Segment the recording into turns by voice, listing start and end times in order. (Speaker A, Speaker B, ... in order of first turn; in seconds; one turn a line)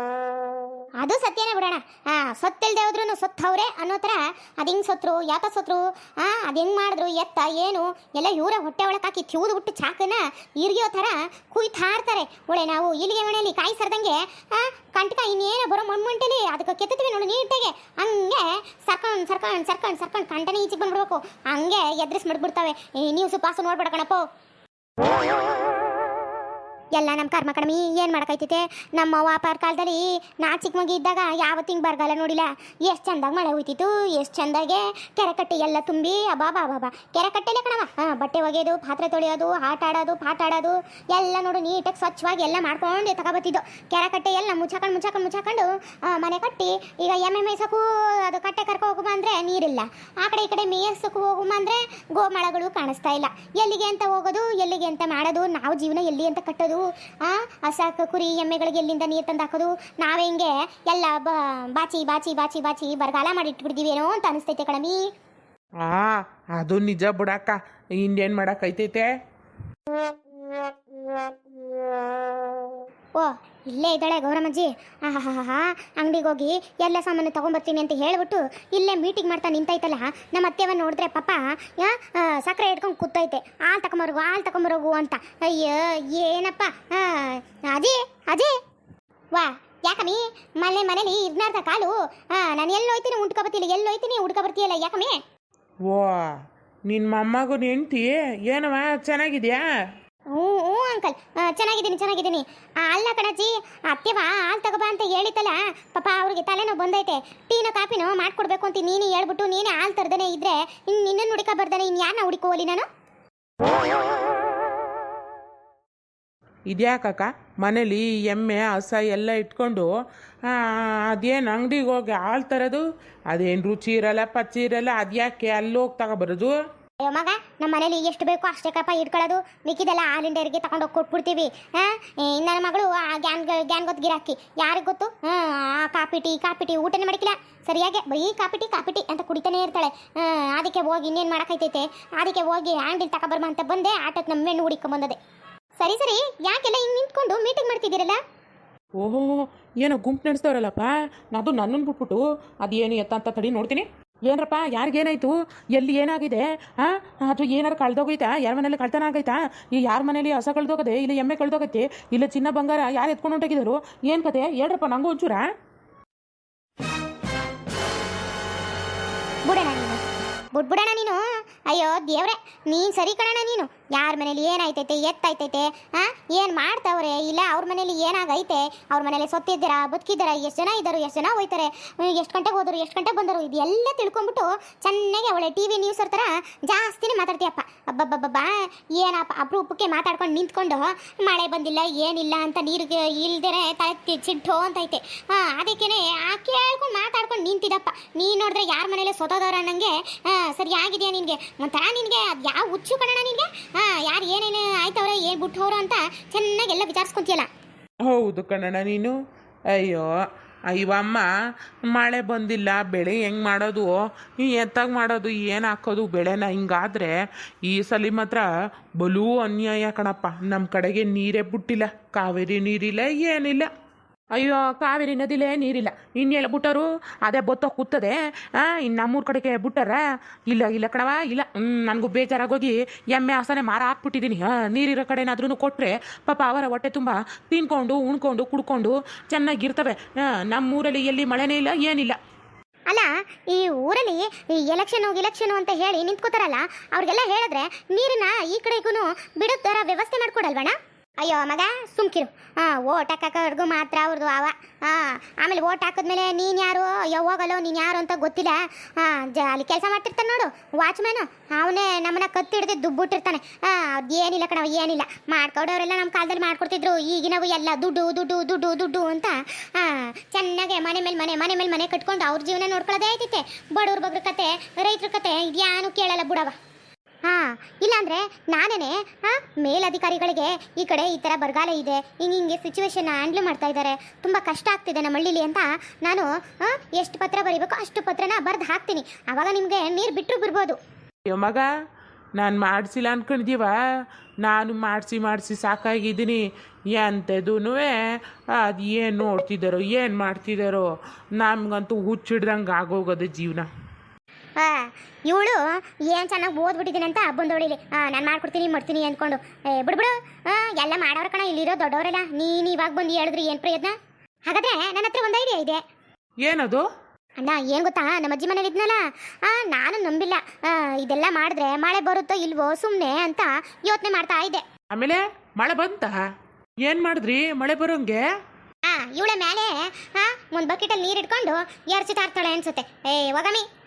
Speaker A: 1.0-24.3
Speaker A: 26.9-65.0
Speaker B: 65.8-69.1
Speaker A: 73.2-88.5
Speaker A: 89.3-95.2
Speaker B: 95.9-96.3
Speaker B: 96.9-99.7
Speaker A: 100.3-112.9
Speaker B: 116.7-119.9
Speaker B: 120.5-126.5
Speaker A: 127.0-145.2
Speaker A: 145.8-148.2
Speaker B: 149.0-165.5
Speaker A: 169.5-170.0
Speaker A: 170.5-207.5
Speaker B: 208.1-209.2
Speaker B: 209.7-210.1
Speaker B: 210.7-211.3
Speaker B: 211.9-218.5
Speaker B: 219.0-223.7
Speaker B: 224.3-242.2
Speaker A: 242.9-276.6
Speaker A: 277.3-290.8
Speaker B: 291.3-291.7
Speaker B: 292.4-293.7
Speaker B: 294.4-297.9
Speaker B: 298.6-303.7
Speaker A: 304.6-314.0
Speaker A: 314.5-315.8
Speaker B: 316.4-316.9
Speaker A: 317.4-324.6
Speaker B: 324.9-326.2
Speaker B: 326.9-328.2
Speaker A: 328.9-333.7